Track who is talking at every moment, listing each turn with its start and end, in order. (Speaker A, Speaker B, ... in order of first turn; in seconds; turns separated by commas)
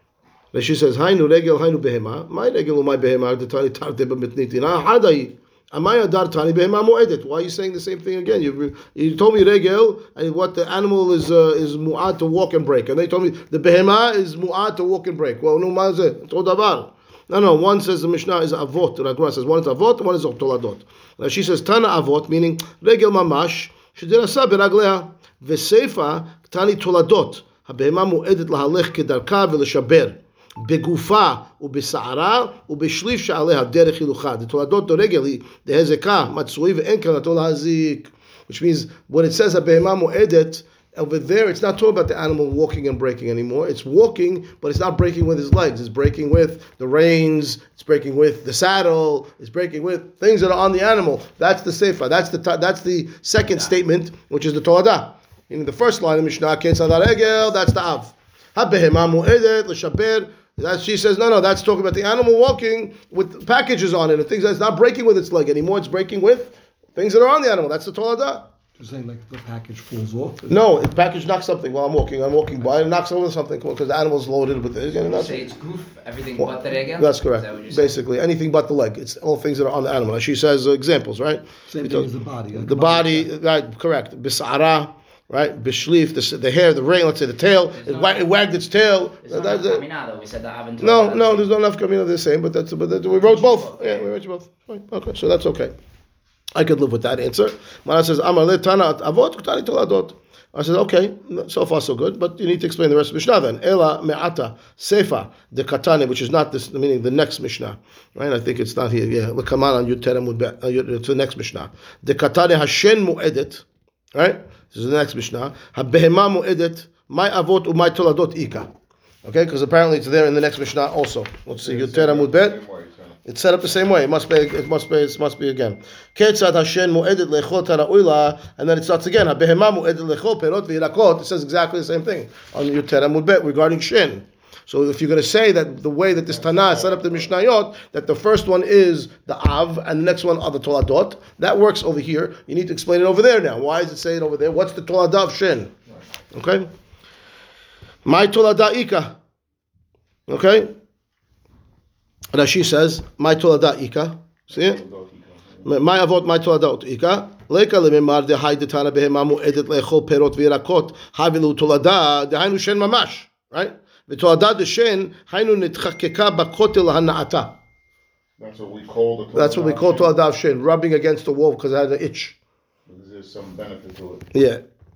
Speaker A: 0.5-68.5, Speaker B: 68.8-70.5, Speaker A: 70.5-75.4, Speaker C: 75.0-78.0, Speaker A: 76.4-89.8, Speaker B: 81.7-83.3, Speaker C: 87.7-88.3, Speaker C: 89.2-91.5, Speaker A: 90.8-95.7, Speaker D: 93.3-94.0, Speaker A: 96.5-118.7, Speaker A: 119.2-122.6, Speaker D: 121.6-123.2, Speaker A: 123.3-145.7, Speaker D: 136.3-137.3, Speaker A: 146.3-146.7, Speaker A: 148.1-149.2, Speaker A: 150.3-150.7, Speaker A: 152.3-154.8, Speaker D: 154.5-155.7, Speaker A: 155.6-167.6, Speaker D: 168.4-170.1, Speaker A: 169.3-172.4, Speaker D: 172.9-174.3, Speaker A: 174.3-174.6